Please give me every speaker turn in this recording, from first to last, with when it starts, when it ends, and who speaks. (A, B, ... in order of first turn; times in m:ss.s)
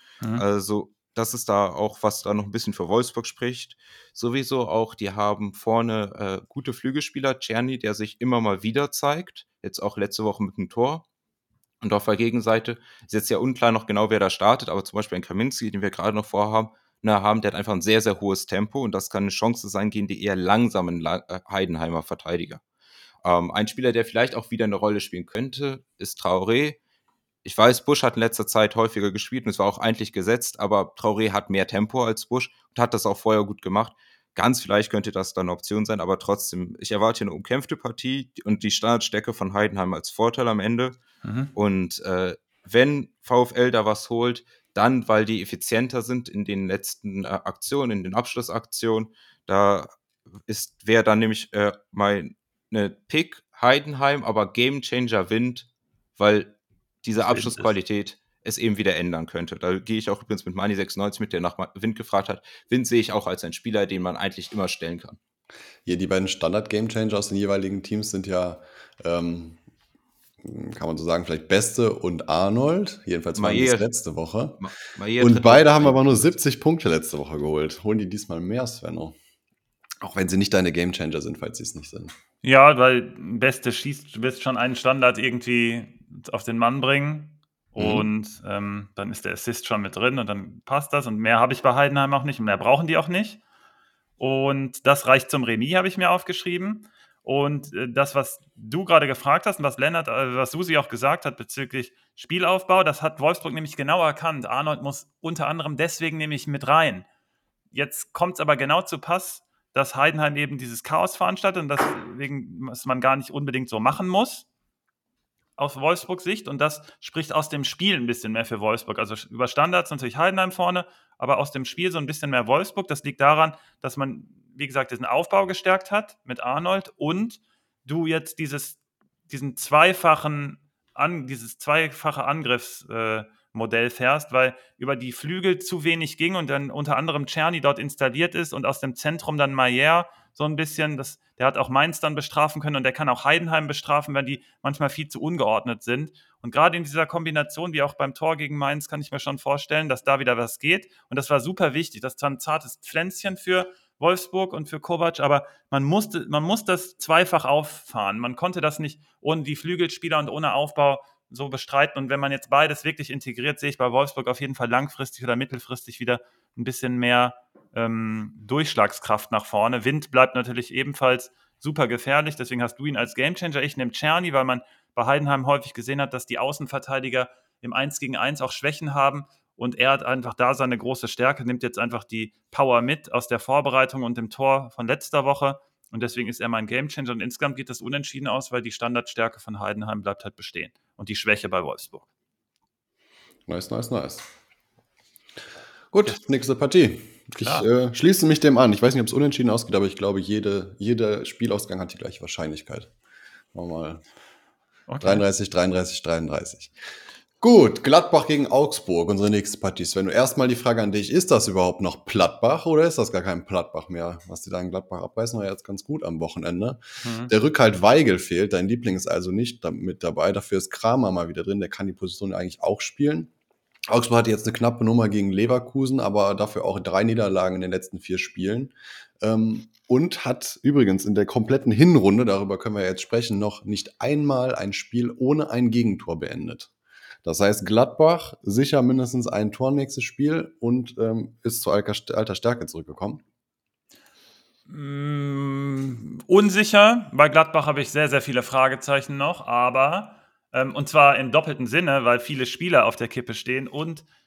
0:00.4-0:11.0 A
0:11.8-0:22.6 A
0:23.2-0:26.8 A
0:27.4-0:41.0 A
0:41.2-0:41.5 B
0:41.5-0:49.9 A
0:50.5-1:05.2 A
1:05.8-1:09.6 C
1:10.4-1:14.6 C
1:13.4-1:13.9 A
1:14.6-1:16.2 A
1:15.2-1:19.2 C
1:20.0-1:22.1 C
1:22.4-1:33.4 B
1:27.8-1:28.0 C
1:34.2-1:47.0 B
1:47.7-1:54.5 B
1:55.6-2:08.8 B
2:09.3-3:12.1 B
3:13.5-3:14.2 C
3:15.9-3:22.9 C
3:17.4-3:17.7 B
3:23.5-3:24.0 C
3:24.9-3:25.2 B
3:25.0-3:26.7 C
3:27.4-3:43.3 C
3:37.0-3:37.3 B
3:43.9-3:56.7 C
3:57.2-4:03.2 C
4:04.7-4:14.0 B